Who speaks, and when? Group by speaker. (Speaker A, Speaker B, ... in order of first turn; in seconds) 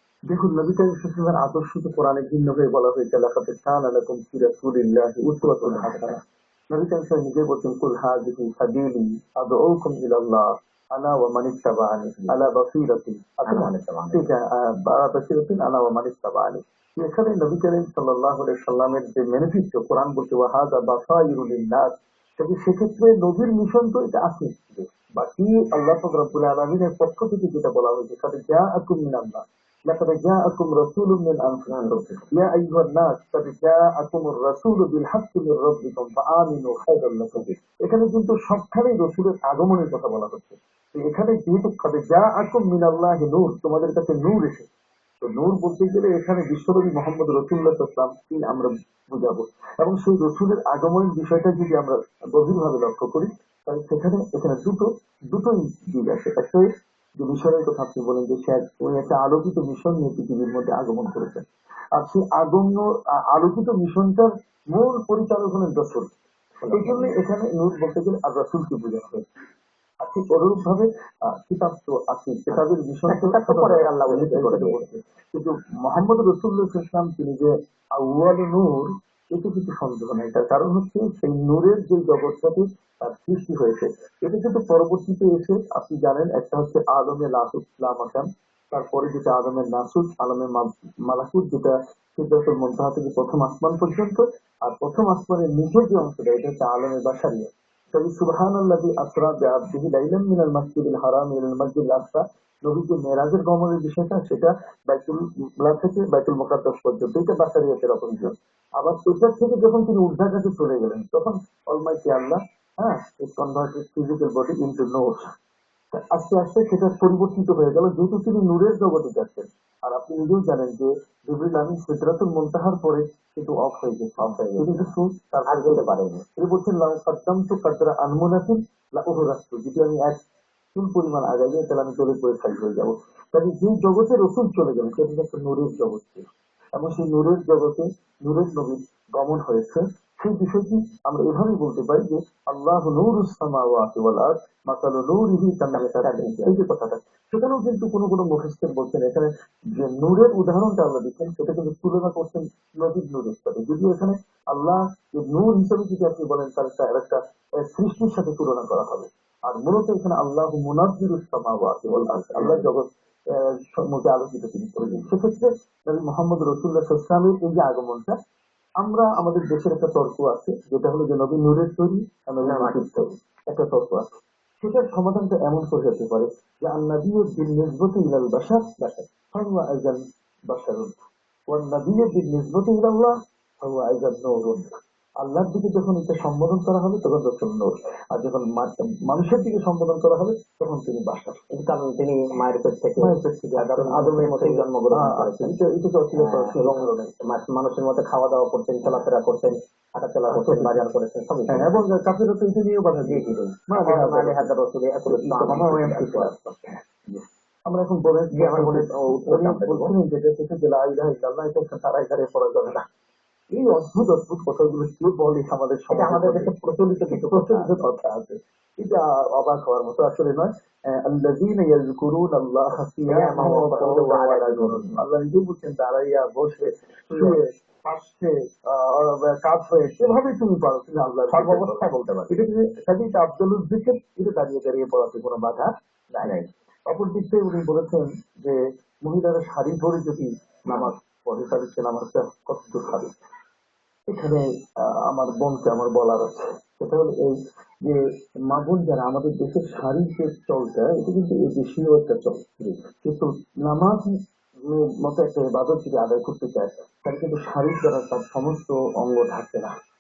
Speaker A: 0.3-6.2, 6.7-31.7, 32.3-44.7, 45.2-56.7, 57.2-61.4, 62.0-66.1, 66.7-69.2, 70.0-115.2, 115.9-130.2, 130.8-136.2, 136.8-168.1, 168.8-174.0, 174.6-180.9, 181.5-184.7, 185.2-191.4, 193.0-197.1, 200.3-200.8, 201.5-204.5, 205.1-206.7, 207.7-212.8, 213.5-236.3, 236.9-243.1, 244.1-248.0, 248.5-254.1, 254.6-259.7
Speaker B: 5.4-6.2, 13.5-14.3, 31.7-32.2, 66.6-67.1, 72.5-74.8, 124.2-124.9, 125.5-126.2, 145.7-146.6, 161.9-162.7, 164.8-165.1, 172.4-173.0, 191.5-195.6, 196.2-201.8, 203.1-206.3, 208.3-209.9, 215.9-217.8, 223.1-225.0, 227.1-227.4, 231.3-232.4